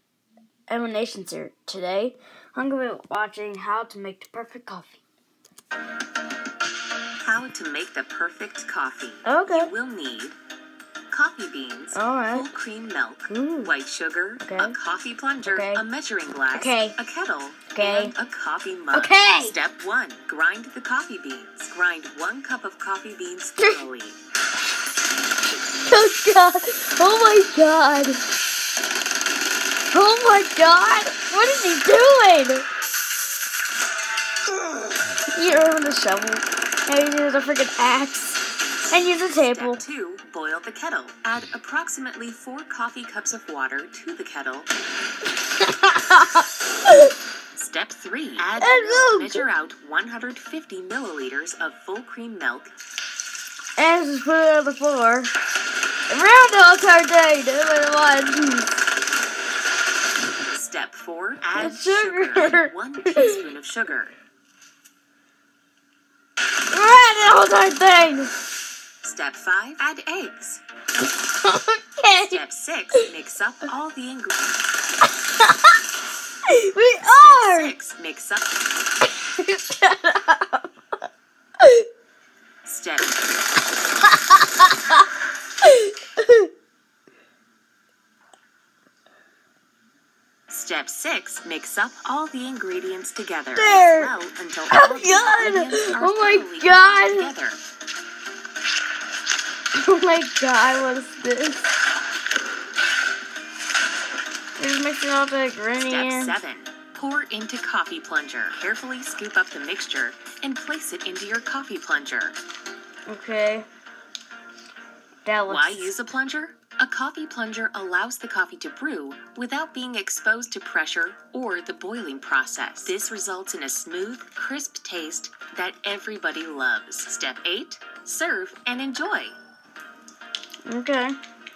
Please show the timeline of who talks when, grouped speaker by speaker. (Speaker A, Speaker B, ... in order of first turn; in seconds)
Speaker A: 0.7-5.0, 9.2-9.7, 11.9-12.5, 13.3-13.7, 14.4-14.7, 15.4-15.8, 16.5-17.0, 17.7-18.1, 18.9-19.6, 23.6-23.8, 25.8-28.2, 29.9-32.6, 35.3-39.8, 45.6-47.1, 48.6-49.5, 53.8-55.3, 56.1-58.7, 61.5-63.4, 66.7-68.3, 71.4-72.4, 75.4-75.7, 76.5-77.7, 79.4-80.7, 84.1-85.0, 85.6-86.5, 93.5-94.1, 94.7-97.3, 99.8-101.7, 104.6-106.3, 113.1-113.7, 115.2-115.9, 130.7-131.2
Speaker B: 7.2-10.4, 11.1-24.2, 38.6-44.7, 47.5-52.7, 60.5-64.1, 69.0-70.6, 72.2-74.6, 77.0-78.7, 82.6-83.2, 90.5-97.6, 105.8-112.4, 115.4-129.4